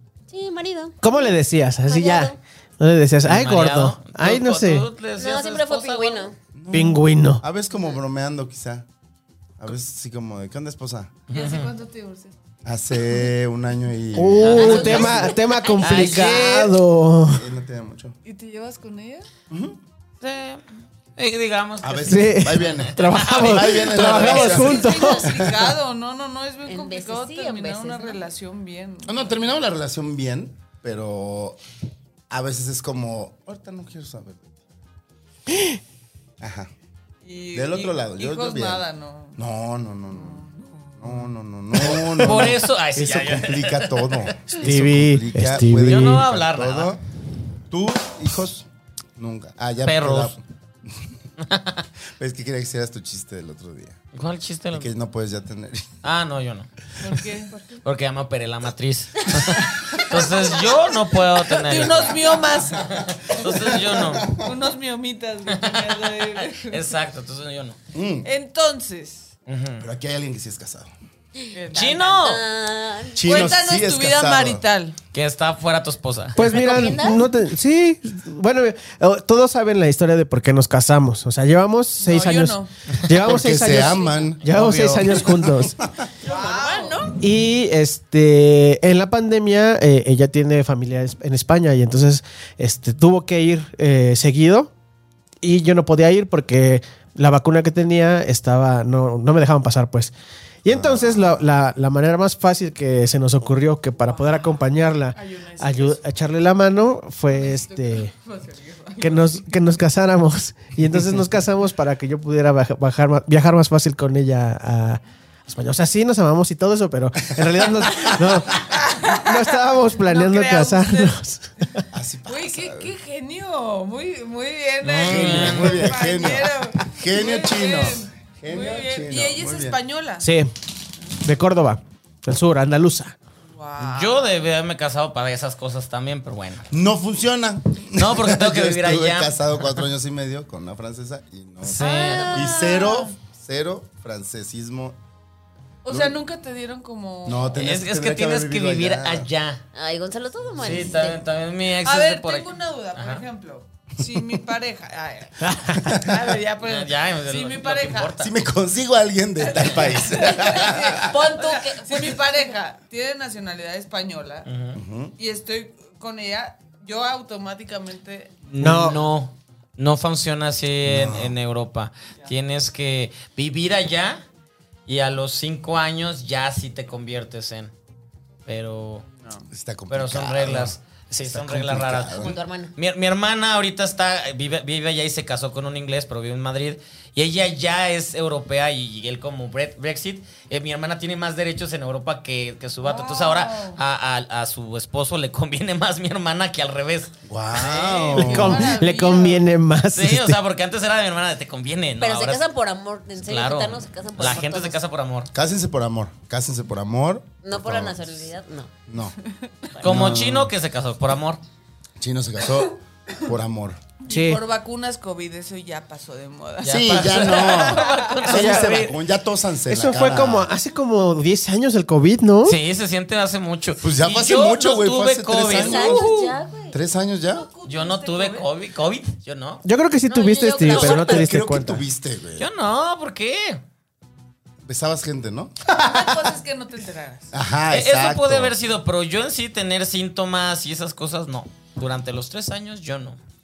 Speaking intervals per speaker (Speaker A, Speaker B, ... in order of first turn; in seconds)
Speaker A: 0.3-1.3, 1.9-2.4, 5.2-6.3, 14.5-16.6, 26.7-28.2, 72.0-73.5, 76.4-77.3, 86.2-87.2, 141.8-142.9, 149.8-151.2, 161.0-162.2, 182.2-182.7, 202.0-204.8, 207.4-208.7, 225.5-226.8, 230.1-231.3
Speaker B: 1.0-4.9, 6.7-7.4, 14.1-17.4, 22.1-25.3, 44.6-46.3, 76.3-85.8, 87.2-94.7, 95.4-100.1, 100.6-108.1, 109.0-121.8, 130.2-130.5, 131.2-133.2, 155.4-155.8, 168.6-169.1, 198.2-200.4, 214.1-214.4, 218.2-219.0, 219.7-222.6, 226.1-226.3, 229.6-231.8
Speaker C: 3.2-6.3, 11.3-11.7, 14.4-15.3, 15.8-16.8, 20.2-20.6, 21.2-24.5, 41.8-44.6, 45.8-47.0, 49.9-50.4, 51.4-51.9, 54.1-54.9, 56.0-56.7, 57.8-64.3, 65.5-67.8, 69.5-69.9, 71.7-72.4, 75.1-76.4, 124.8-126.0, 133.8-136.7, 137.9-139.7, 141.6-142.4, 147.5-149.6, 150.6-153.2, 156.6-158.3, 164.4-164.8, 168.5-174.2, 174.9-177.7, 178.5-179.1, 179.9-198.2, 199.9-202.4, 203.2-205.3, 209.8-211.4, 216.6-218.9, 222.4-226.0, 227.7-229.6, 232.4-233.6, 237.7-243.2
Speaker D: 6.5-8.9, 9.6-11.2, 12.7-15.3, 17.3-18.2, 19.5-19.8, 21.8-25.8, 29.1-31.6, 32.3-34.5, 36.4-36.7, 37.5-38.8, 39.4-40.5, 41.0-47.0, 47.7-51.1, 52.2-54.0, 54.7-55.9, 63.4-64.5, 67.9-68.3, 69.8-70.9, 73.2-74.6, 83.1-85.9, 100.7-101.4, 117.5-118.3, 121.9-122.9, 125.0-129.8, 136.7-145.0, 145.9-146.2, 147.2-149.3, 150.5-151.1, 155.8-156.3, 158.2-161.2, 164.7-165.2, 170.8-171.4, 179.5-182.4, 197.3-198.7, 205.3-208.3, 208.9-209.2, 209.8-210.5, 212.0-213.8, 216.7-220.5, 223.8-226.1, 226.7-227.5, 230.7-232.5, 234.6-235.8, 237.3-238.6
Speaker E: 11.3-12.3, 18.2-19.3, 24.0-29.3, 37.2-39.4, 40.1-41.3, 57.0-57.8, 61.5-63.0, 64.2-66.8, 68.2-69.3, 71.5-72.2, 73.2-75.0, 82.0-82.7, 86.2-87.1, 104.0-106.0, 107.3-109.4, 118.6-121.2, 122.3-130.3, 133.5-134.4, 141.8-143.1, 145.8-147.6, 151.8-158.2, 159.4-164.5, 165.2-168.4, 179.1-179.5, 192.8-193.8, 197.6-199.4, 209.4-209.8, 214.1-218.3, 227.2-228.5, 235.8-237.3